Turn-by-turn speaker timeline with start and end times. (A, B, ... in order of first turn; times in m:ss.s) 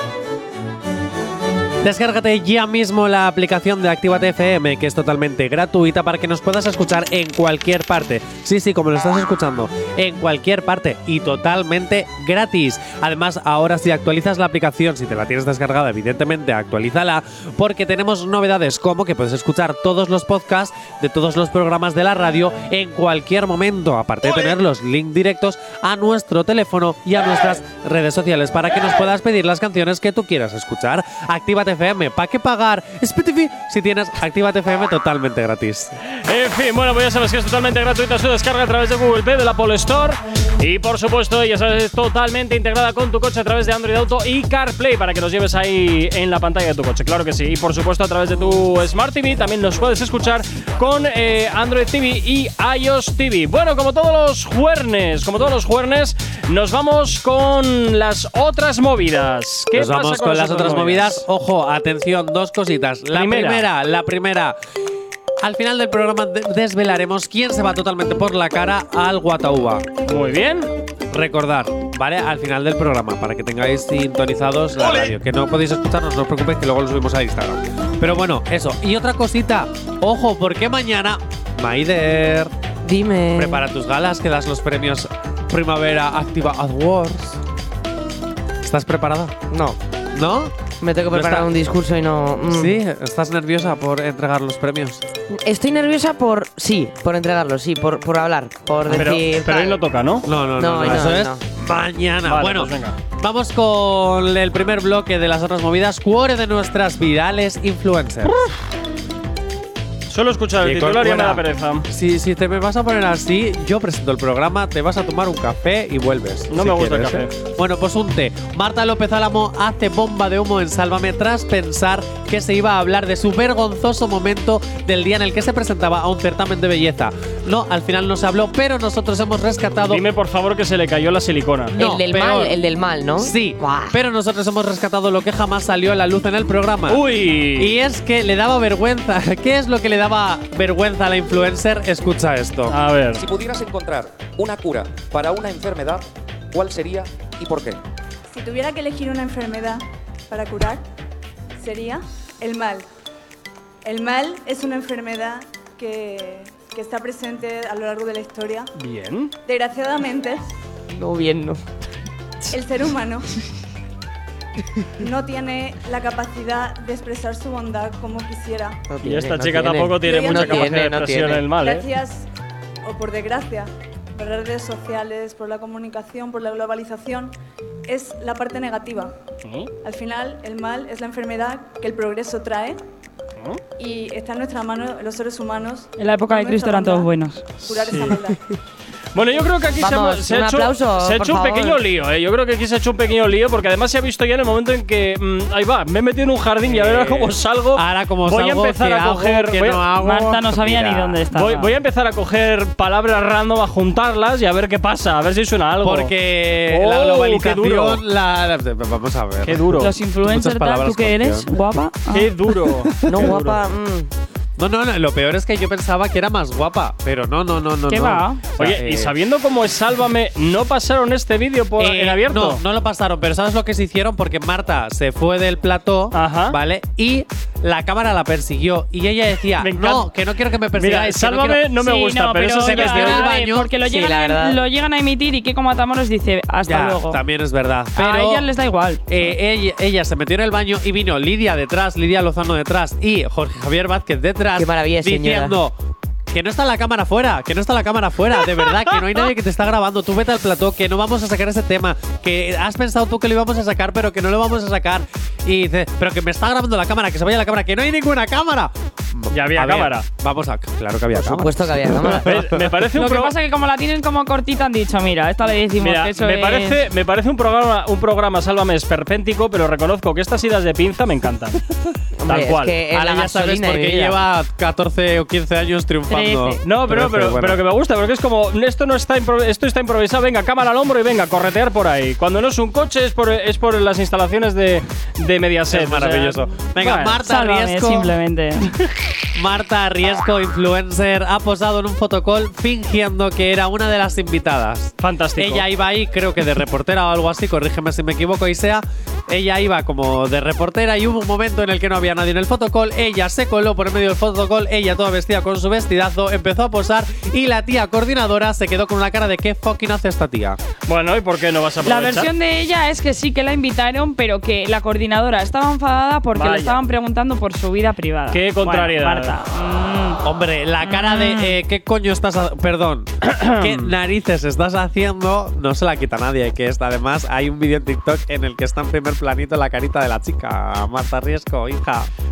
0:01.8-0:36.0 A
0:36.2-1:01.2 B
0:59.7-1:04.6 A
1:03.1-1:03.7 B
1:05.4-1:09.9 A
1:10.0-1:10.7 B
1:11.1-1:22.5 A
1:22.8-1:23.6 C
1:23.3-1:27.4 A
1:28.6-1:29.3 A
1:29.5-1:29.8 C
1:30.1-1:31.5 A
1:30.8-1:32.7 C
1:32.5-1:35.0 A
1:35.3-1:39.8 C
1:38.9-1:40.2 B
1:40.2-1:48.4 A
1:40.6-1:41.4 C
1:40.8-1:41.1 B
1:42.2-1:43.0 B
1:48.2-1:48.5 B
1:50.1-1:51.8 B
1:50.6-2:10.0 A
1:56.5-1:57.3 B
2:09.9-2:11.7 B
2:11.7-2:12.6 A
2:11.7-2:13.9 C
2:13.2-2:17.0 A
2:16.9-2:17.7 B
2:17.6-2:22.8 A
2:22.7-2:23.2 B
2:23.1-2:27.8 D
2:28.3-2:30.8 E
2:31.6-2:32.9 E
2:33.8-2:38.7 E
2:38.8-2:39.3 B
2:39.4-2:40.4 E
2:40.9-2:41.6 C
2:42.5-2:43.3 E
2:45.0-2:48.8 E
2:48.9-2:51.4 C
2:49.0-2:51.9 B
2:50.0-2:50.7 E
2:51.5-2:52.3 E
2:52.8-2:57.3 E
2:57.9-2:59.1 E
2:59.4-2:59.7 B
2:59.8-3:02.8 E
3:03.8-3:07.1 E
3:06.0-3:07.4 F
3:07.6-3:08.4 E
3:07.7-3:08.2 B
3:09.1-3:19.8 B
3:09.8-3:11.8 C
3:16.6-3:21.2 A
3:20.0-3:21.7 F
3:21.3-3:26.1 B
3:25.8-3:31.5 A
3:26.7-3:28.0 B
3:29.4-3:29.9 B
3:29.8-3:32.3 F
3:32.1-3:33.6 B
3:33.0-3:33.3 A
3:33.0-3:34.1 C
3:34.6-3:39.1 A
3:37.9-3:38.4 F
3:38.6-3:42.6 B
3:41.8-3:51.6 A
3:46.1-3:46.6 B
3:49.6-3:50.1 B
3:50.7-3:53.3 B
3:51.8-3:57.2 F
3:52.6-3:53.7 A
3:53.7-3:54.6 C
3:56.6-3:58.5 A
3:58.0-3:59.0 F
3:59.1-4:05.8 A
4:04.6-4:05.6 C
4:06.3-4:22.7 A
4:19.3-4:20.0 B
4:21.1-4:22.3 C
4:22.2-4:23.3 B
4:22.9-4:26.8 F
4:25.8-4:31.6 B
4:32.2-4:34.2 C
4:32.3-4:32.8 B
4:32.9-4:37.6 A
4:36.1-4:36.6 F
4:36.6-4:47.2 B
4:45.7-4:48.1 A
4:47.2-4:48.7 F
4:49.3-5:10.6 A
4:55.0-4:55.6 B
5:10.9-5:12.3 B
5:11.8-5:20.2 F
5:16.3-5:16.8 B
5:18.3-5:19.3 B
5:20.2-5:32.1 A
5:20.8-5:21.5 F
5:23.2-5:23.9 B